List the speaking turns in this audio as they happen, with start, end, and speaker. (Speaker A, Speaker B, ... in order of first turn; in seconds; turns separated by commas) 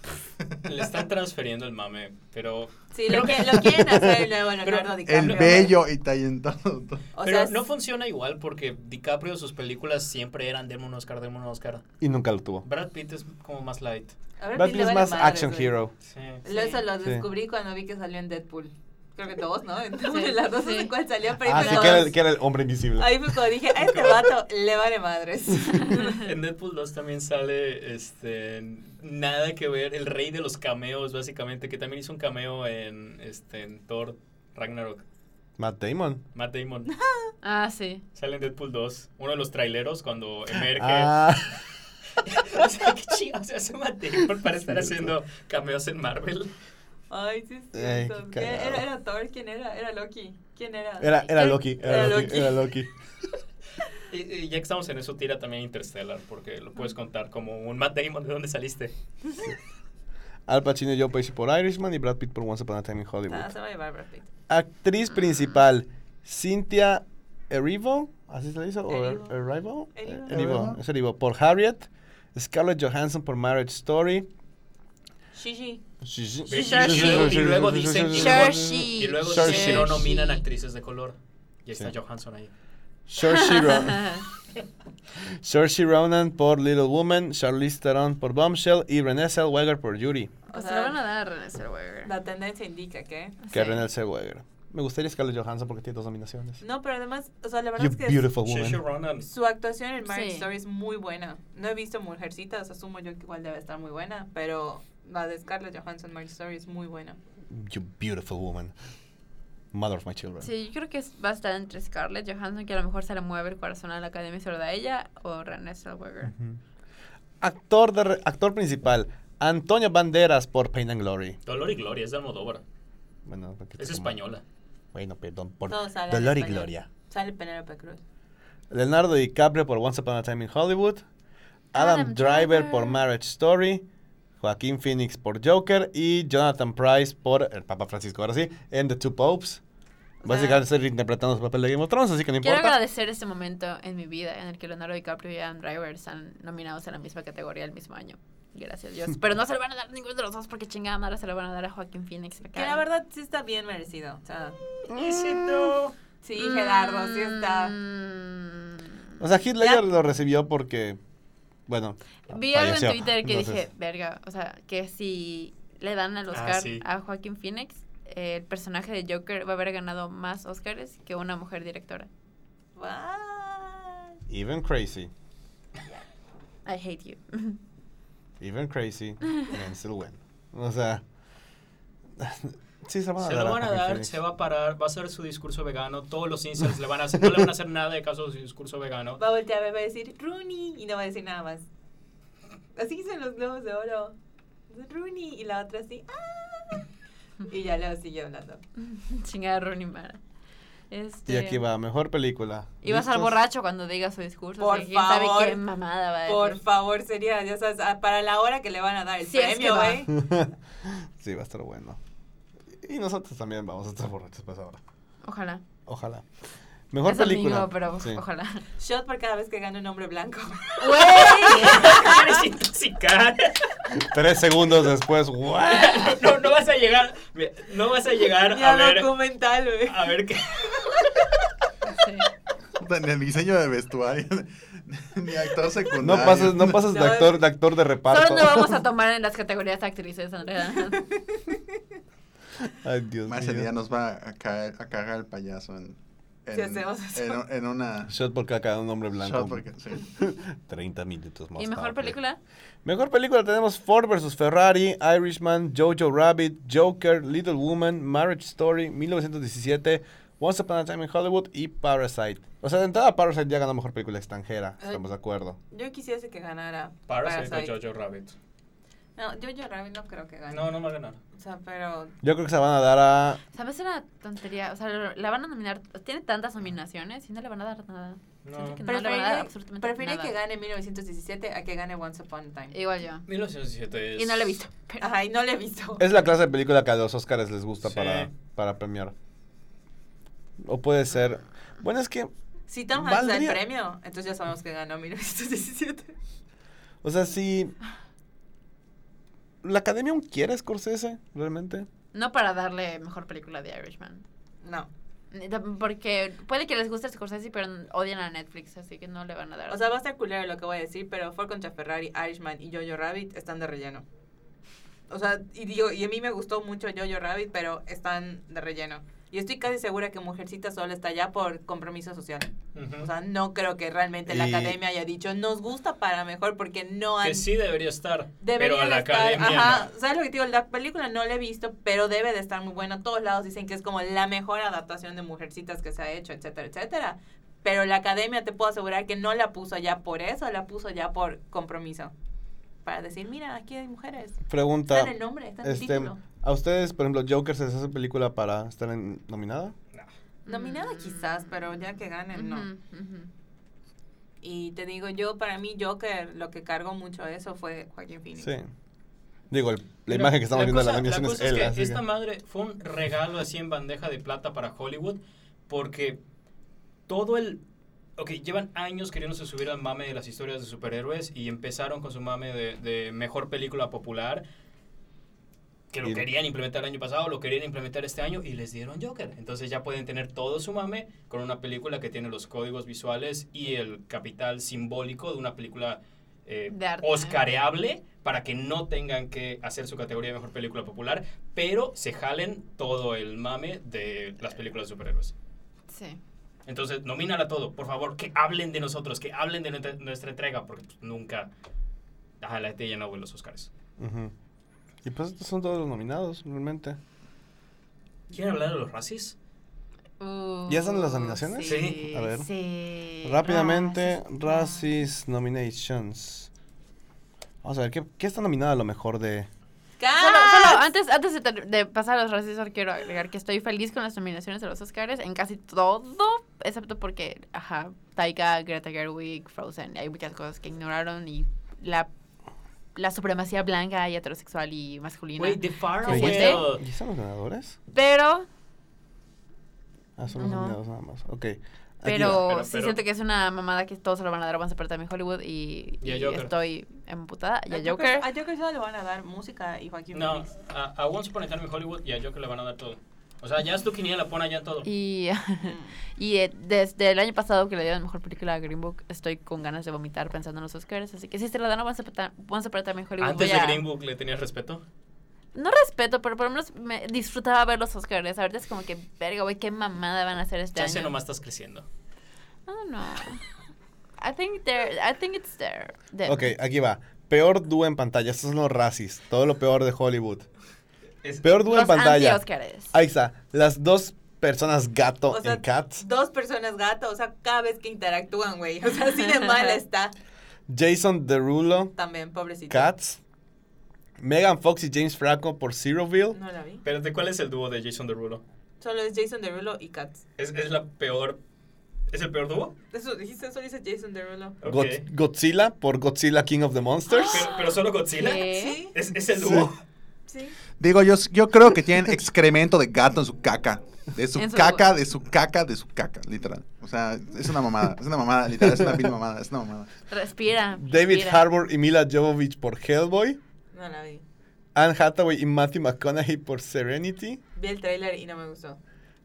Speaker A: 0.7-4.0, Speaker B: 2.9-5.8, Speaker C: 3.7-4.3, Speaker A: 4.6-5.7, Speaker D: 5.0-7.1, Speaker B: 7.1-7.6, Speaker A: 7.2-11.8, Speaker C: 12.0-12.7, Speaker A: 12.6-14.1, Speaker B: 14.4-15.7, Speaker C: 14.6-15.9, Speaker A: 16.0-16.4, Speaker B: 16.4-22.2, Speaker E: 16.4-16.8, Speaker C: 17.0-17.2, Speaker E: 20.1-20.9, Speaker C: 21.4-23.4, Speaker B: 23.0-26.2, Speaker A: 23.9-24.3, Speaker A: 26.1-35.0, Speaker C: 35.6-36.2, Speaker A: 36.3-36.9, Speaker E: 37.4-38.0, Speaker A: 38.1-41.2, Speaker C: 40.7-41.6, Speaker A: 42.2-46.5, Speaker C: 44.7-45.1, Speaker B: 47.1-52.7, Speaker C: 47.7-48.8, Speaker C: 51.0-52.9, Speaker A: 54.1-58.9, Speaker C: 60.5-63.5, Speaker B: 63.3-64.3, Speaker C: 64.5-74.3, Speaker B: 68.9-69.3, Speaker B: 69.9-70.5, Speaker D: 70.3-70.8, Speaker B: 75.3-75.8, Speaker C: 76.0-80.0, Speaker A: 76.5-82.5, Speaker E: 76.5-77.5, Speaker E: 78.1-80.4, Speaker C: 83.1-84.2, Speaker E: 83.2-84.2, Speaker C: 85.2-90.3, Speaker B: 90.5-91.0, Speaker E: 90.5-92.1, Speaker B: 92.0-93.4, Speaker E: 93.4-93.8, Speaker C: 93.5-96.6, Speaker B: 96.6-98.3, Speaker C: 97.8-98.8, Speaker A: 98.4-99.3, Speaker B: 99.2-107.2, Speaker E: 100.0-100.5, Speaker C: 107.5-108.7, Speaker C: 109.7-110.5, Speaker E: 110.4-116.3, Speaker C: 116.3-116.6, Speaker C: 117.4-121.4, Speaker A: 121.5-122.6, Speaker C: 123.2-124.1, Speaker A: 123.8-124.4, Speaker C: 124.9-126.9, Speaker B: 125.7-128.0, Speaker C: 128.7-131.0, Speaker C: 131.7-133.8, Speaker E: 131.7-133.0, Speaker C: 134.4-139.6, Speaker C: 140.2-142.7, Speaker B: 140.2-140.5, Speaker E: 142.4-152.8, Speaker B: 152.5-154.6, Speaker A: 154.8-155.9, Speaker C: 154.9-155.7, Speaker B: 156.2-157.8, Speaker E: 156.4-158.9, Speaker C: 159.2-161.0, Speaker B: 159.6-159.9, Speaker C: 161.7-163.6, Speaker E: 162.3-172.1, Speaker A: 166.3-166.8, Speaker B: 172.8-174.2, Speaker C: 174.3-175.1, Speaker E: 176.7-177.6, Speaker C: 178.4-181.0, Speaker C: 182.2-184.2, Speaker A: 183.2-189.2, Speaker B: 189.2-191.7, Speaker B: 192.7-194.2, Speaker B: 194.7-196.8, Speaker B: 197.4-198.6, Speaker E: 198.8-200.2, Speaker E: 200.9-201.6, Speaker C: 201.3-203.3, Speaker E: 202.8-206.6, Speaker B: 204.6-205.6, Speaker B: 206.2-210.2, Speaker E: 209.2-210.0, Speaker C: 210.1-212.0, Speaker C: 212.7-214.8, Speaker E: 215.2-215.6, Speaker C: 215.8-216.2, Speaker C: 216.9-218.2, Speaker E: 217.0-218.6, Speaker B: 218.8-222.3, Speaker E: 220.8-222.1, Speaker A: 221.0-223.7, Speaker C: 224.0-226.2, Speaker A: 225.6-229.2, Speaker B: 228.4-230.2, Speaker A: 229.8-231.0, Speaker E: 231.9-232.2, Speaker D: 232.8-236.8, Speaker C: 236.0-238.8, Speaker B: 236.8-237.4, Speaker E: 238.1-241.0, Speaker C: 242.7-243.7, Speaker D: 243.3-248.1, Speaker B: 246.5-247.4, Speaker C: 248.1-249.7, Speaker D: 249.2-250.1, Speaker C: 250.2-252.2, Speaker E: 251.6-252.4, Speaker C: 252.8-265.6, Speaker B: 265.7-267.7, Speaker A: 267.1-268.3, Speaker B: 269.2-270.7, Speaker A: 270.5-271.2, Speaker B: 271.3-272.1, Speaker C: 272.2-273.4, Speaker E: 273.5-280.3, Speaker A: 278.4-278.8, Speaker B: 278.8-282.7, Speaker E: 282.7-283.2, Speaker A: 283.3-284.5, Speaker E: 284.1-285.1, Speaker B: 285.0-286.1, Speaker C: 286.0-289.1, Speaker A: 287.8-288.3, Speaker C: 290.6-292.3, Speaker B: 292.7-296.1, Speaker C: 292.9-293.6, Speaker C: 297.0-297.7, Speaker C: 299.6-301.9, Speaker E: 302.1-304.2, Speaker B: 304.6-304.9, Speaker E: 305.3-309.8, Speaker B: 309.7-314.0, Speaker B: 315.1-327.5, Speaker A: 322.7-323.1, Speaker C: 324.3-324.8, Speaker A: 327.2-329.9, Speaker B: 328.4-342.1, Speaker B: 342.8-346.2, Speaker C: 344.5-349.7, Speaker E: 350.4-351.8, Speaker B: 350.5-352.7, Speaker E: 352.3-353.3, Speaker B: 354.4-358.5, Speaker C: 358.4-358.7, Speaker C: 359.5-362.0, Speaker A: 360.1-366.2, Speaker A: 367.1-367.6, Speaker A: 368.2-374.4, Speaker A: 375.9-395.3, Speaker E: 386.7-387.4, Speaker E: 395.9-396.2, Speaker A: 396.6-401.5, Speaker A: 402.4-403.7, Speaker C: 404.0-404.3, Speaker C: 405.0-407.0, Speaker A: 408.3-409.3, Speaker E: 410.2-414.8, Speaker C: 410.7-412.5, Speaker A: 411.6-412.0, Speaker C: 413.2-416.5, Speaker C: 417.6-419.5, Speaker B: 420.0-420.8, Speaker E: 420.1-432.1, Speaker E: 432.9-436.6, Speaker A: 435.4-436.8, Speaker C: 436.1-437.8, Speaker E: 437.9-438.5, Speaker C: 440.2-442.4, Speaker E: 440.4-440.8, Speaker E: 442.0-448.2, Speaker A: 442.2-443.0, Speaker A: 446.0-446.5, Speaker B: 447.7-450.5, Speaker A: 450.1-454.9, Speaker E: 454.8-463.8, Speaker B: 455.6-455.9, Speaker A: 463.2-464.8, Speaker E: 465.5-471.1, Speaker A: 470.7-471.9, Speaker E: 472.7-473.4, Speaker E: 474.2-476.5, Speaker C: 476.2-480.4, Speaker C: 481.4-486.0, Speaker E: 481.6-482.9, Speaker B: 485.3-490.1, Speaker C: 490.7-491.9, Speaker B: 491.9-492.9, Speaker C: 492.7-493.2, Speaker C: 494.2-496.4, Speaker B: 496.3-496.8, Speaker A: 496.8-498.4, Speaker B: 498.8-500.2, Speaker A: 500.4-501.4, Speaker A: 502.1-502.7, Speaker B: 502.9-504.6, Speaker A: 504.6-505.0, Speaker C: 504.6-507.5, Speaker E: 507.1-507.4, Speaker A: 507.3-509.8, Speaker E: 508.1-508.8, Speaker B: 508.4-508.9, Speaker C: 509.4-509.7, Speaker B: 510.3-510.6, Speaker D: 510.8-519.9, Speaker E: 514.3-514.9, Speaker E: 520.1-521.5, Speaker C: 520.8-523.4, Speaker B: 523.7-524.2, Speaker C: 524.7-527.4, Speaker B: 527.5-528.8